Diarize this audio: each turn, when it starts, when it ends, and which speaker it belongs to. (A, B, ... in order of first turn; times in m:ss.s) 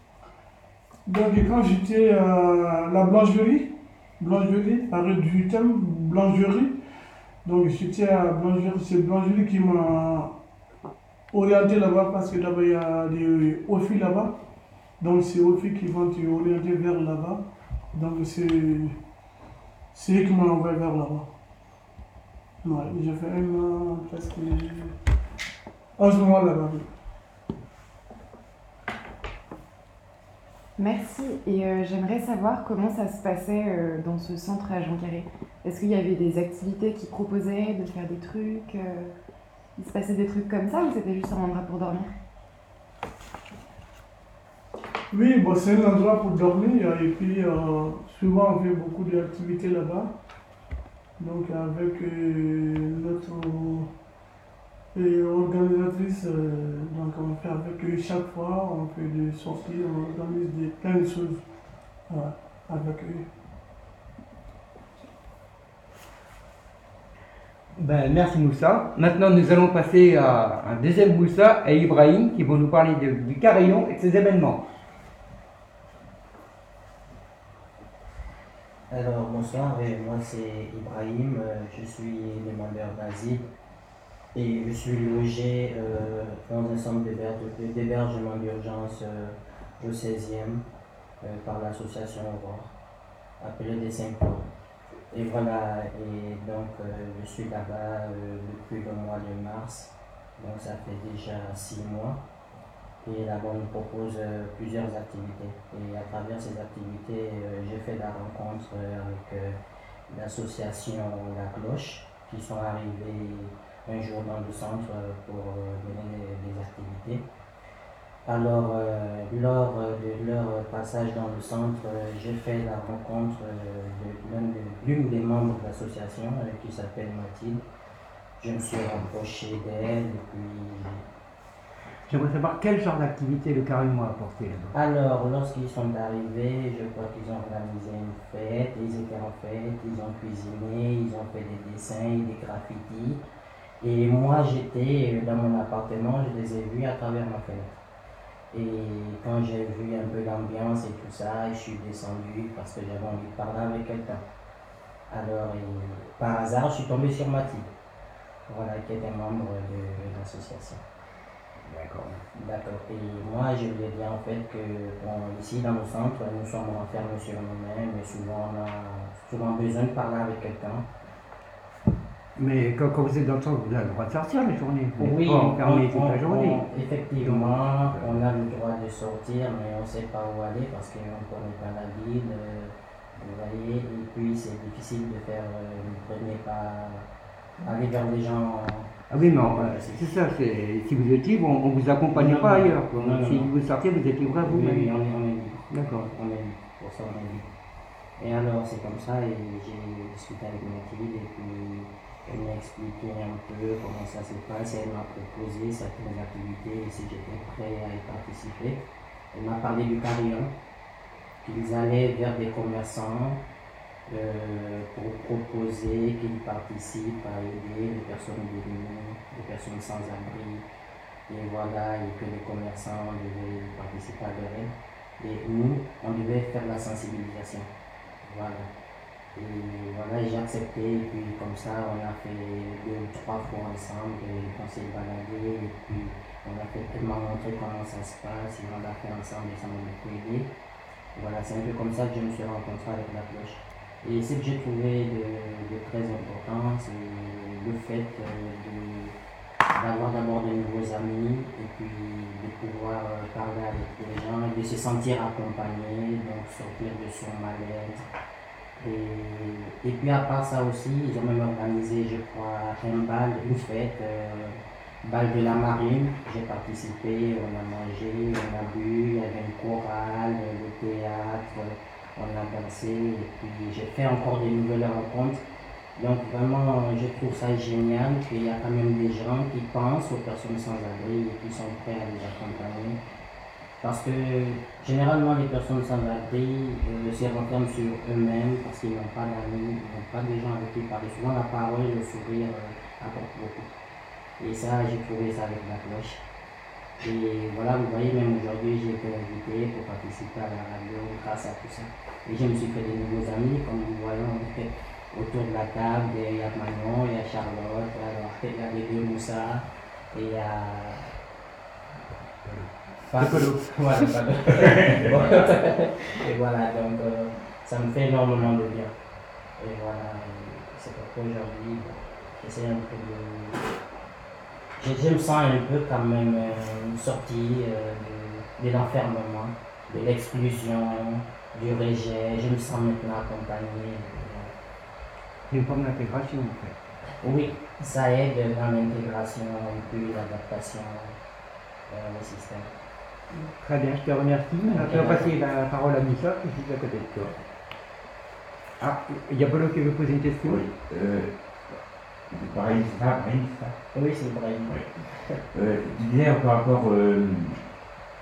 0:01.1-0:06.8 A
0:07.4-0:10.3 A
0:11.3-0:14.4 A
0:15.0-0:19.0 A
0:19.9-0:21.3 A
0:22.6-0:24.9 A
0:26.0-0:26.9 A
0:30.8-0:39.1 B
0:39.8-0:42.1 B
0:45.1-0:50.2 A
0:51.2-0:53.9 A
0:55.0-1:01.4 A
1:02.1-1:03.3 A
1:07.8-1:14.6 C
1:18.9-1:23.5 D
1:24.3-1:30.6 D
1:31.2-1:32.7 D
1:33.4-1:34.5 D
1:35.1-1:42.2 D
1:43.0-1:49.6 D
1:50.1-1:57.2 D
1:58.2-2:07.6 D
2:08.4-2:11.0 D
2:12.1-2:14.8 C
2:14.7-2:23.2 D
2:23.8-2:27.8 D
2:28.5-2:34.2 D
2:35.1-2:37.7 D
2:38.5-2:40.8 D
2:41.6-2:42.2 C
2:42.3-2:50.9 D
2:52.4-2:56.7 C
2:55.0-3:07.1 D
2:57.2-2:58.2 C
3:07.6-3:10.0 D
3:09.1-3:14.9 C
3:12.1-3:13.5 D
3:14.3-3:17.5 D
3:15.7-3:16.1 C
3:18.2-3:30.5 D
3:31.4-3:33.4 D
3:34.1-3:40.6 D
3:41.3-3:47.7 D
3:48.2-3:48.7 D
3:49.4-4:00.5 D
4:01.2-4:09.1 D
4:09.7-4:18.0 D
4:18.8-4:35.4 D
4:36.0-4:43.0 D
4:43.8-4:53.7 D
4:54.4-4:56.2 D
4:57.0-5:11.1 D
5:12.4-5:13.6 C
5:13.1-5:18.9 D
5:14.5-5:15.5 E
5:19.6-5:23.6 D
5:24.8-5:34.5 D
5:35.5-5:36.8 C
5:37.2-5:41.2 D
5:41.9-5:42.7 D
5:43.6-5:47.4 C
5:44.7-5:45.3 D
5:48.8-5:50.6 C
5:50.4-5:51.3 E
5:52.3-5:53.8 E
5:53.9-5:54.8 D
5:55.5-5:57.6 E